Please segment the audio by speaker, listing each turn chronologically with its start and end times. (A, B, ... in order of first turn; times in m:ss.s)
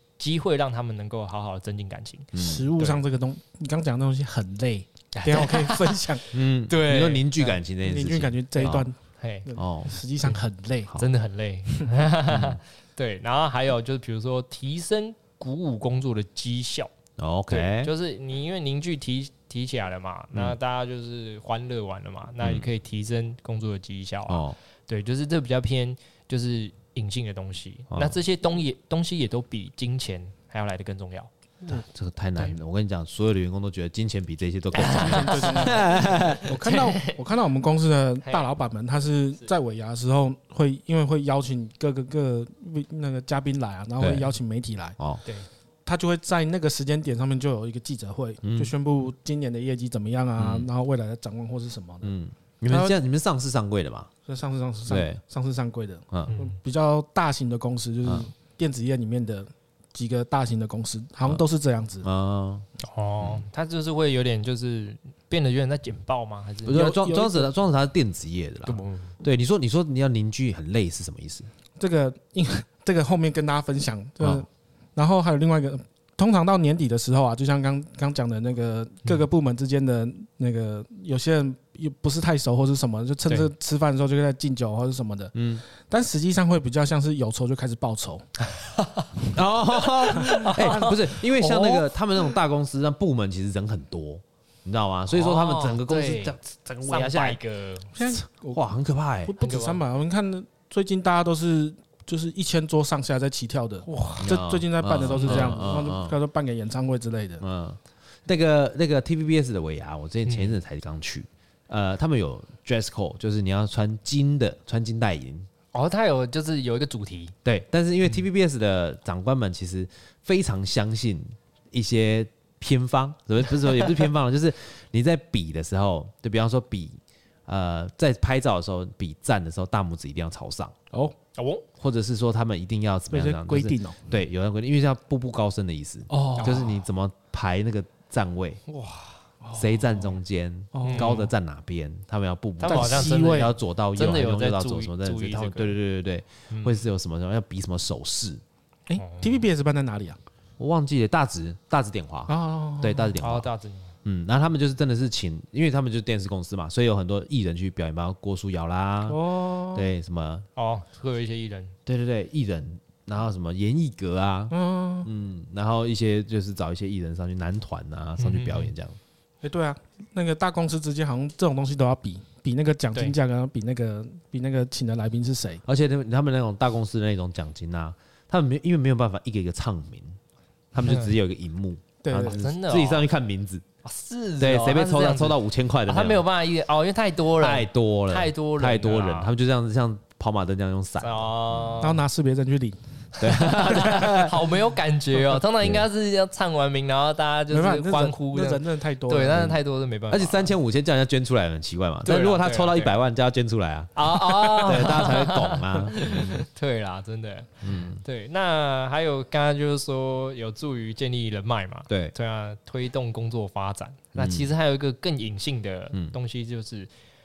0:00.2-0:03.0 A
0:02.3-0:02.7 B
0:02.4-0:06.2 C
0:05.1-0:06.0 A
0:06.3-0:08.9 B
0:06.7-0:07.6 A
0:07.8-0:08.9 C
0:08.7-0:09.5 A
0:09.4-0:10.9 C
0:09.6-0:09.9 B
0:11.0-0:16.9 A
0:12.3-0:12.6 B
0:17.2-0:17.9 B
0:17.5-0:31.3 A
0:22.4-0:22.7 B
0:24.3-0:24.6 B
0:27.9-0:28.2 B
0:31.6-0:36.4 B
0:34.8-0:37.2 A
0:34.8-0:45.0 C
0:44.0-0:44.3 B
0:45.8-0:52.1 C
0:48.4-0:48.7 B
0:50.4-0:50.7 B
0:52.0-0:54.1 B
0:52.7-0:53.0 C
0:54.2-1:02.1 C
0:54.9-0:55.2 B
0:56.3-0:56.6 A
1:02.0-1:02.6 B
1:02.8-1:06.8 A
1:06.6-1:11.5 B
1:06.7-1:07.5 C
1:08.6-1:09.1 A
1:11.8-1:28.3 C
1:25.3-1:25.6 B
1:28.5-1:29.1 A
1:29.3-1:37.4 B
1:30.0-1:31.9 A
1:35.1-1:37.9 A
1:37.9-1:38.7 C
1:38.0-1:39.3 B
1:39.2-1:47.4 C
1:39.4-1:39.8 A
1:43.9-1:44.3 A
1:44.2-1:46.2 B
1:45.1-1:45.6 A
1:47.4-1:55.5 B
1:50.2-1:50.5 A
1:55.7-1:57.3 A
1:57.4-2:10.7 B
2:11.3-2:11.6 A
2:11.8-2:18.6 B
2:13.1-2:14.0 C
2:16.1-2:16.7 C
2:16.4-2:16.8 A
2:18.7-2:19.2 A
2:19.4-2:20.1 C
2:19.5-2:28.4 B
2:20.7-2:21.3 C
2:20.8-2:21.2 A
2:22.6-2:25.8 A
2:22.7-2:23.5 C
2:26.5-2:26.8 A
2:28.9-2:30.2 C
2:29.0-2:29.5 A
2:30.6-2:33.5 B
2:32.3-2:33.2 C
2:33.2-2:33.9 A
2:34.0-2:39.2 B
2:39.1-2:39.9 C
2:39.7-2:40.4 B
2:40.6-2:41.8 A
2:41.8-2:49.0 B
2:44.5-2:45.1 C
2:48.2-2:48.7 A
2:49.4-2:55.6 C
2:55.6-3:00.2 B
3:00.7-3:03.6 B
3:02.0-3:02.4 C
3:02.1-3:03.0 A
3:03.8-3:09.3 A
3:04.4-3:06.2 B
3:07.3-3:11.7 B
3:11.0-3:12.0 A
3:11.8-3:12.8 C
3:13.2-3:14.4 B
3:13.2-3:20.5 A
3:13.6-3:14.2 C
3:15.6-3:15.8 B
3:17.5-3:19.5 C
3:19.3-3:19.6 B
3:20.1-3:26.4 B
3:22.0-3:22.9 A
3:23.9-3:36.9 A
3:27.6-3:28.0 B
3:31.9-3:32.1 B
3:34.1-3:34.5 B